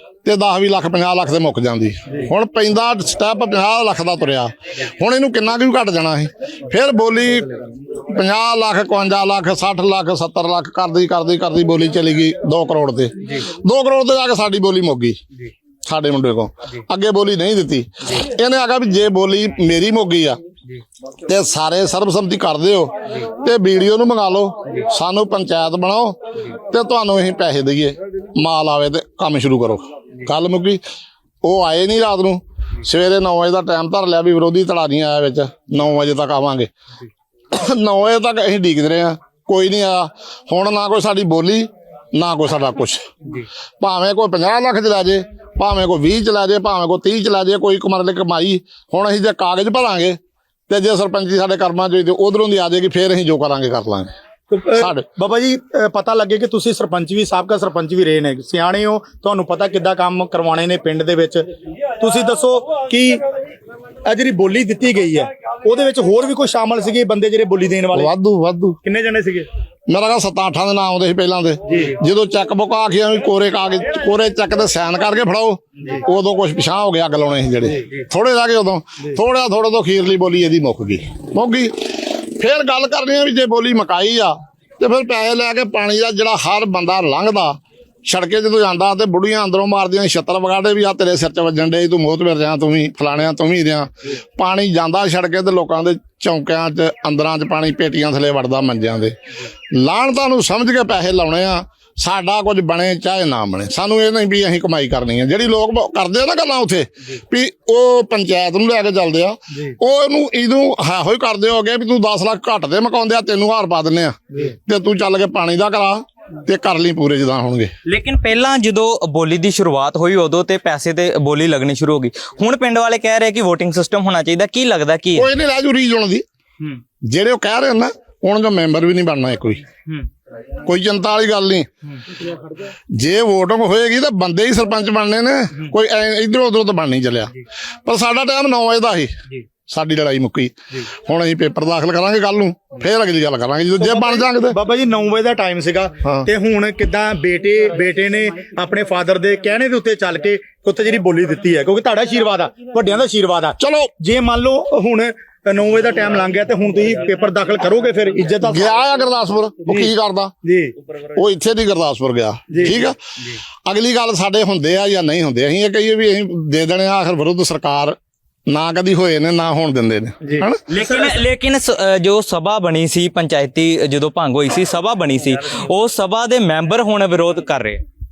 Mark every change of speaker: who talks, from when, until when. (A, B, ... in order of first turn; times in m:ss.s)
0:00.2-0:07.6 A
0:08.1-0:15.2 A
0:15.8-0:20.4 A
0:21.2-0:30.8 A
0:31.4-0:36.7 A
0:37.5-0:43.0 A
0:43.8-0:50.2 A
0:50.7-0:54.1 A
0:54.5-1:01.4 B
0:54.7-0:55.0 A
1:02.0-1:03.2 B
1:04.0-1:08.1 B
1:07.9-1:08.8 A
1:08.8-1:09.5 B
1:09.9-1:39.1 A
1:39.7-1:57.7 A
1:57.8-2:05.3 C
2:05.1-2:06.2 A
2:07.1-2:09.6 A
2:10.6-2:11.7 A
2:13.0-2:17.3 A
2:17.8-2:19.2 A
2:19.7-2:24.6 A
2:23.8-2:38.7 B
2:26.0-2:26.3 A
2:33.6-2:33.9 A
2:38.4-2:40.3 A
2:40.4-2:40.7 B
2:41.1-2:43.0 A
2:42.5-2:42.8 B
2:43.6-2:48.0 A
2:48.5-2:50.6 A
2:50.7-2:57.8 C